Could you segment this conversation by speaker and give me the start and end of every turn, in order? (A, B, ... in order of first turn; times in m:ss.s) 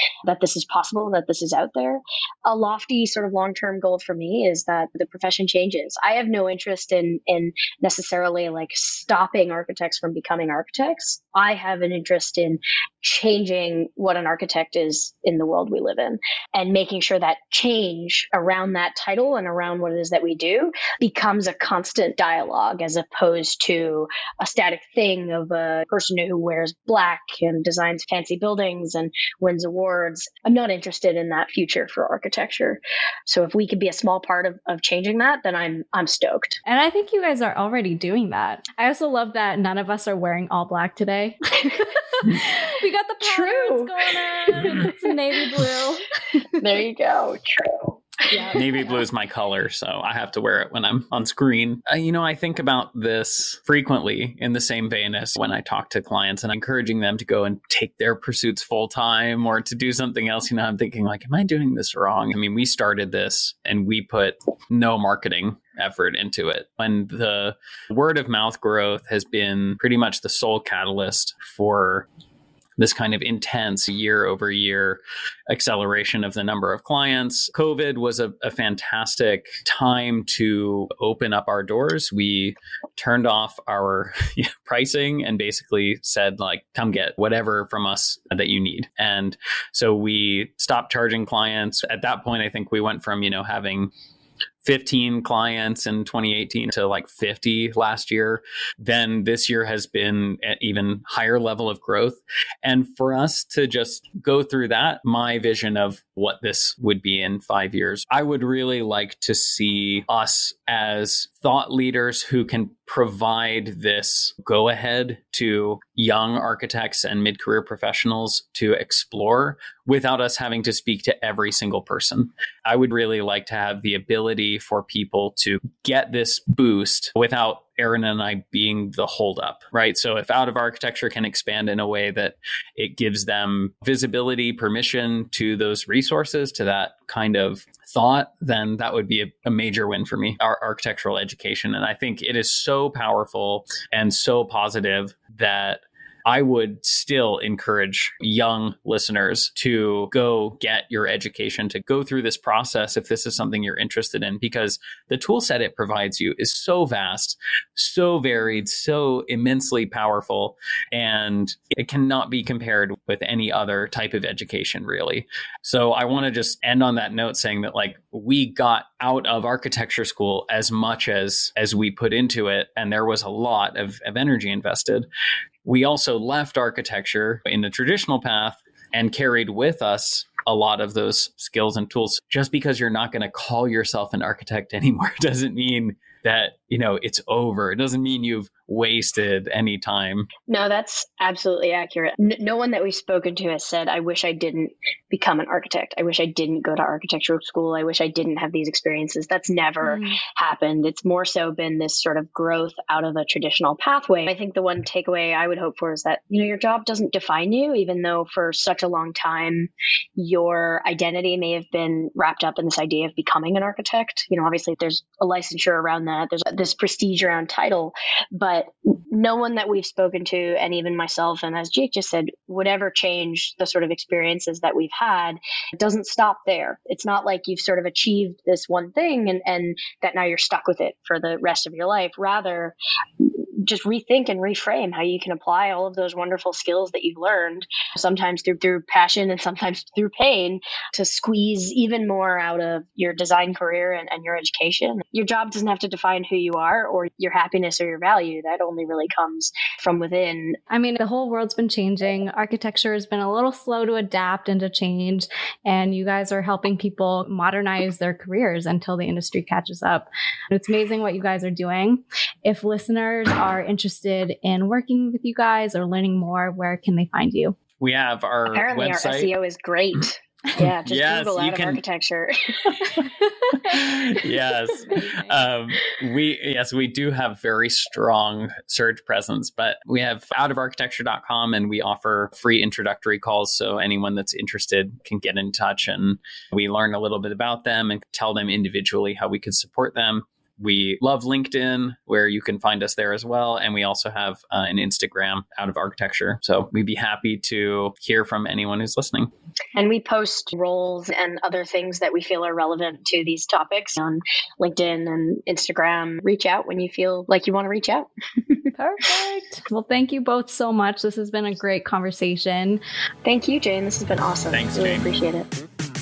0:00.3-0:36.6 A
0:36.6-0:46.0 B
0:43.2-0:44.9 A
0:46.6-0:48.6 A
0:48.5-1:12.1 C
1:12.8-1:33.9 C
1:34.6-2:55.1 C
2:55.6-3:10.3 C
3:10.5-4:10.6 A
3:19.8-3:20.2 B
4:10.7-4:27.6 B
4:27.8-4:29.3 C
4:28.5-4:32.8 A
4:30.6-4:31.8 C
4:33.6-4:59.3 C
4:34.8-4:35.4 B
4:59.7-5:08.6 A
5:08.8-5:12.8 B
5:13.2-5:15.5 A
5:14.5-5:15.0 C